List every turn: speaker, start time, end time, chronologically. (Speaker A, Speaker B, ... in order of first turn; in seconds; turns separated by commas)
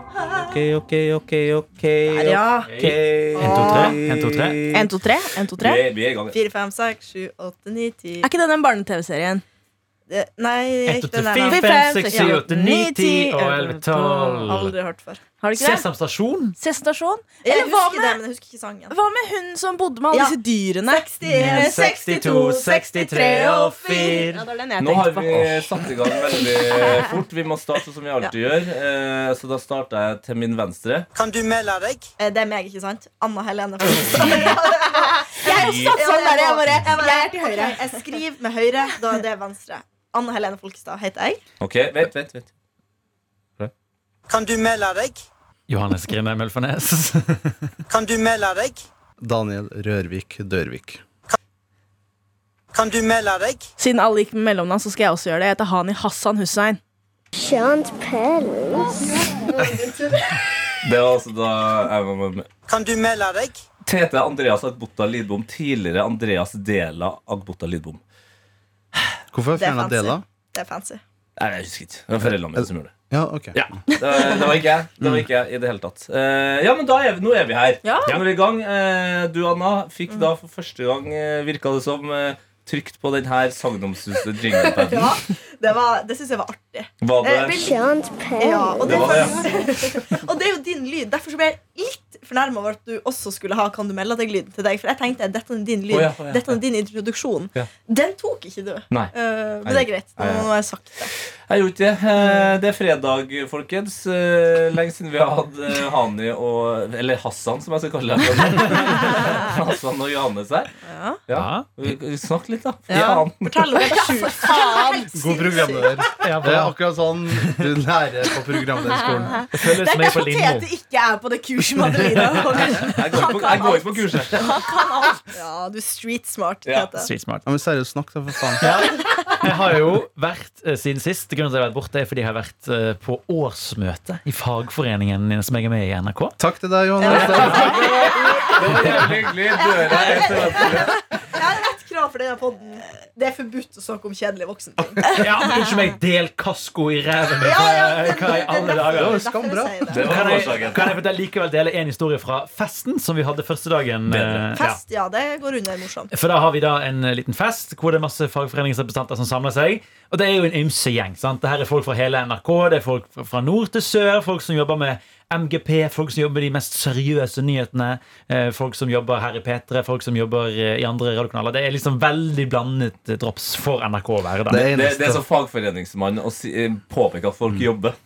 Speaker A: 0.3-4.9, Speaker B: 2.1-3.9, Speaker C: 2.6-4.7, Speaker D: 4.7-5.8, Speaker A: 5.6-6.4, Speaker B: 6.3-8.3, Speaker D: 8.2-9.4, Speaker B: 10.1-12.4, Speaker C: 10.9-14.7, Speaker D: 11.4-14.5, Speaker B: 14.4-15.2, Speaker D: 15.4-15.8, Speaker C: 15.5-16.6, Speaker D: 16.6-18.2, Speaker B: 17.4-18.9, Speaker D: 18.9-25.4, Speaker B: 20.1-22.4, Speaker C: 21.3-24.5, Speaker A: 24.8-31.1, Speaker E: 31.1-32.1, Speaker B: 32.2-41.4, Speaker D: 35.3-37.8, Speaker A: 35.5-36.0, Speaker A: 41.6-42.5, Speaker E: 44.3-45.2, Speaker C: 45.7-47.5, Speaker E: 47.9-48.8, Speaker F: 49.2-51.0, Speaker E: 52.7-53.7, Speaker D: 53.8-56.8, Speaker G: 57.4-59.0, Speaker B: 59.5-60.4, Speaker A: 60.8-62.5, Speaker E: 62.7-63.6, Speaker A: 63.8-68.0, Speaker F: 69.3-70.2, Speaker B: 69.6-71.0, Speaker A: 71.4-72.9, Speaker F: 72.5-73.6, Speaker A: 73.5-85.2, Speaker D: 73.9-74.4, Speaker B: 77.8-78.2, Speaker B: 84.5-87.7, Speaker A: 87.0-87.6, Speaker G: 87.5-89.3, Speaker B: 88.4-101.1, Speaker A: 88.8-89.4, Speaker A: 95.9-96.6, Speaker A: 99.6-100.5, Speaker A: 101.5-110.7, Speaker B: 102.2-102.5, Speaker B: 110.9-111.2, Speaker A: 111.3-113.7, Speaker C: 111.3-111.7, Speaker B: 112.9-116.1, Speaker D: 113.7-115.3, Speaker F: 115.1-119.4, Speaker C: 116.2-116.8, Speaker C: 117.4-117.6, Speaker D: 119.1-125.3, Speaker C: 119.5-120.7, Speaker C: 122.0-122.9, Speaker A: 122.9-124.4, Speaker B: 125.3-127.1, Speaker C: 127.0-127.4, Speaker F: 127.5-128.6, Speaker C: 128.6-136.4, Speaker F: 136.4-137.9, Speaker B: 137.0-138.9, Speaker A: 137.1-141.0, Speaker C: 137.1-139.2, Speaker B: 139.5-145.7, Speaker C: 140.3-140.6, Speaker C: 144.8-149.2, Speaker B: 147.4-150.2, Speaker F: 148.7-150.1, Speaker A: 149.9-150.9, Speaker C: 150.0-154.8, Speaker A: 154.1-154.4, Speaker B: 154.5-156.1, Speaker C: 156.1-174.8, Speaker F: 174.5-175.2, Speaker A: 174.5-177.9